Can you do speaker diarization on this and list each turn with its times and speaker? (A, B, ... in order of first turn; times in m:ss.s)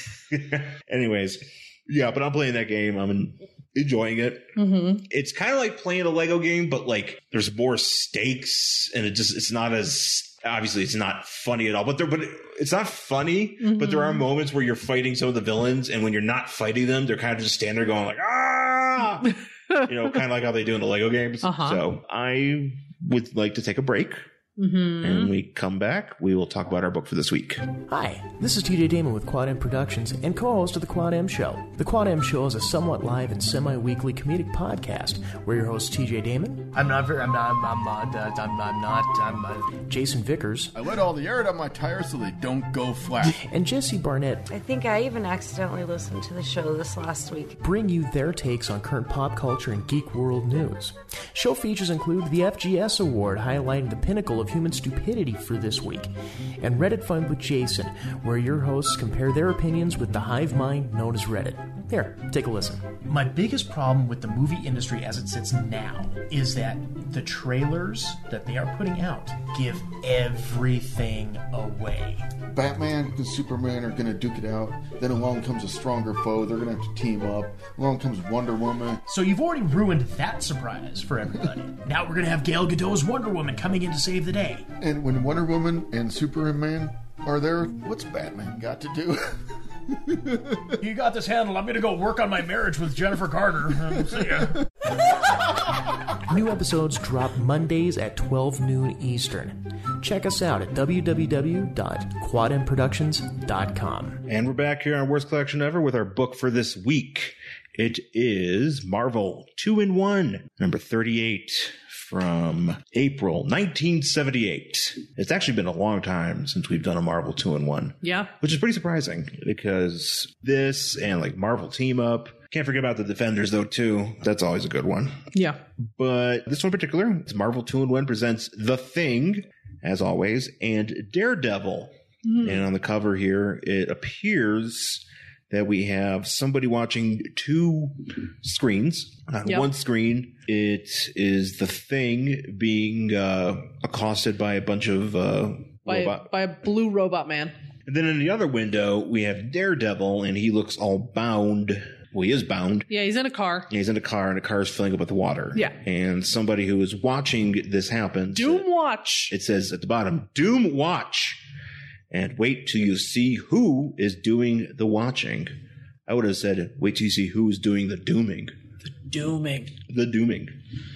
0:00.3-0:04.5 A
0:04.6-0:05.1 B
0:05.0-0:24.2 A
0:13.6-0:14.2 B
0:21.4-0:21.8 B
0:24.6-0:25.3 B
0:25.0-0:27.7 A
0:27.9-0:40.7 C
0:40.7-0:43.4 D
0:43.2-0:44.5 C
0:44.5-0:47.6 E
0:47.6-1:12.3 C
1:12.5-1:19.0 D
1:19.1-1:24.7 C
1:24.8-1:30.7 D
1:30.8-1:44.2 C
1:44.3-2:05.2 A
1:58.0-1:58.3 B
2:05.3-2:05.6 B
2:05.8-2:26.3 A
2:12.2-2:12.6 B
2:25.9-2:27.6 B
2:27.9-2:32.9 A
2:32.9-2:33.7 B
2:33.7-2:38.7 A
2:38.3-2:39.3 B
2:39.3-2:41.4 A
2:42.1-2:45.5 A
2:46.1-2:48.5 A
2:48.9-2:49.8 B
2:49.8-2:50.5 A